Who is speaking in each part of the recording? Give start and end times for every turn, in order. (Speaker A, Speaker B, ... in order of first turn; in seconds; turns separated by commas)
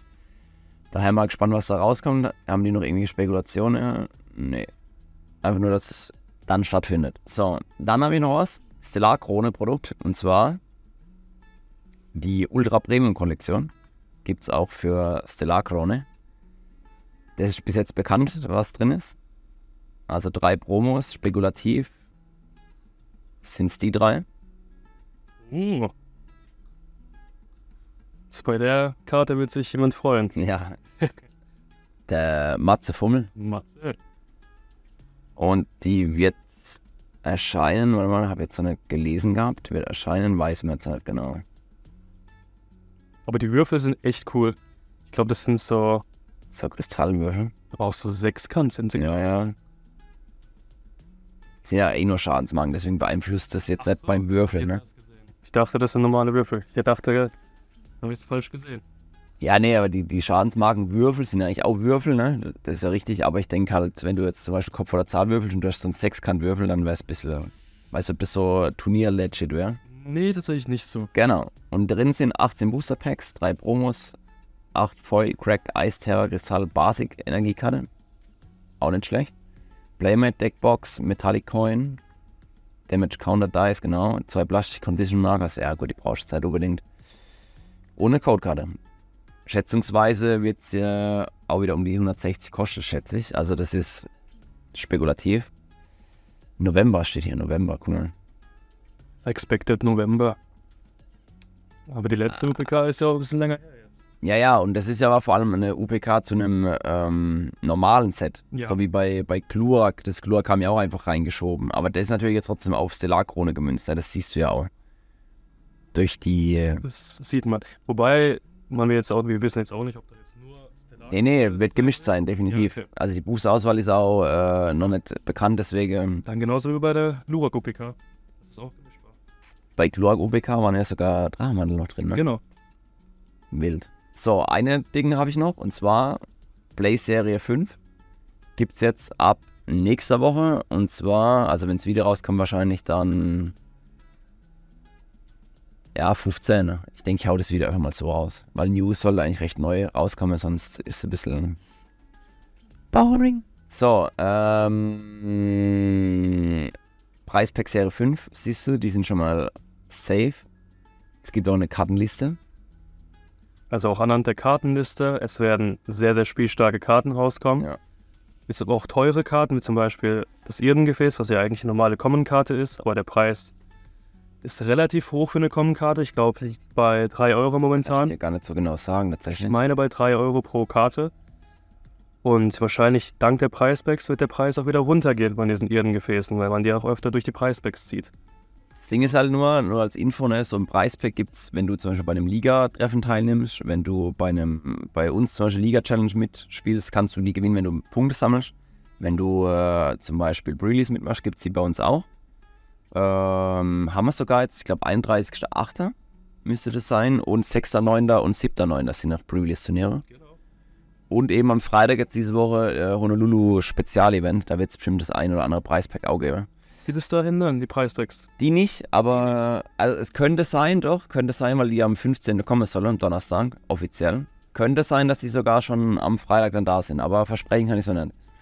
Speaker A: 0.9-4.7, Speaker A: 5.4-10.6, Speaker A: 12.1-13.7, Speaker A: 14.2-16.1, Speaker A: 17.4-19.1, Speaker A: 20.1-21.9, Speaker A: 23.4-24.2, Speaker B: 25.4-25.9, Speaker B: 28.3-30.3, Speaker A: 30.3-30.8, Speaker A: 32.1-33.3, Speaker B: 33.4-34.0, Speaker A: 35.4-41.4, Speaker B: 43.2-46.0, Speaker A: 46.5-47.5, Speaker B: 47.7-49.3, Speaker A: 48.9-49.5, Speaker A: 51.6-54.8, Speaker B: 53.8-57.3, Speaker B: 58.0-58.8, Speaker A: 59.4-69.8, Speaker B: 69.8-71.1, Speaker A: 71.1-74.2, Speaker A: 74.7-77.9, Speaker A: 78.8-79.3, Speaker A: 80.0-82.0, Speaker A: 82.9-86.8, Speaker A: 88.0-88.7, Speaker A: 89.5-94.1, Speaker A: 94.7-95.5, Speaker A: 96.6-98.1, Speaker B: 99.2-100.4, Speaker B: 101.9-104.0, Speaker A: 102.3-102.7, Speaker A: 104.2-114.7, Speaker B: 108.5-108.8, Speaker A: 115.9-116.8, Speaker B: 116.6-122.9, Speaker A: 121.0-126.2, Speaker B: 126.2-129.2, Speaker A: 129.8-132.2, Speaker B: 132.1-132.4, Speaker A: 133.5-136.2, Speaker A: 136.8-137.8, Speaker A: 138.6-143.5, Speaker A: 145.9-151.6, Speaker A: 152.9-156.7, Speaker A: 157.2-160.4, Speaker A: 161.2-162.4, Speaker B: 163.7-167.7, Speaker B: 168.5-173.5, Speaker B: 174.4-178.1, Speaker A: 177.8-179.6, Speaker B: 179.4-181.1, Speaker B: 182.2-188.1, Speaker A: 188.7-202.1, Speaker A: 202.9-205.9, Speaker A: 206.4-210.0, Speaker B: 210.1-210.4, Speaker A: 211.1-216.5, Speaker B: 216.8-218.3, Speaker A: 218.4-228.1, Speaker B: 219.1-219.4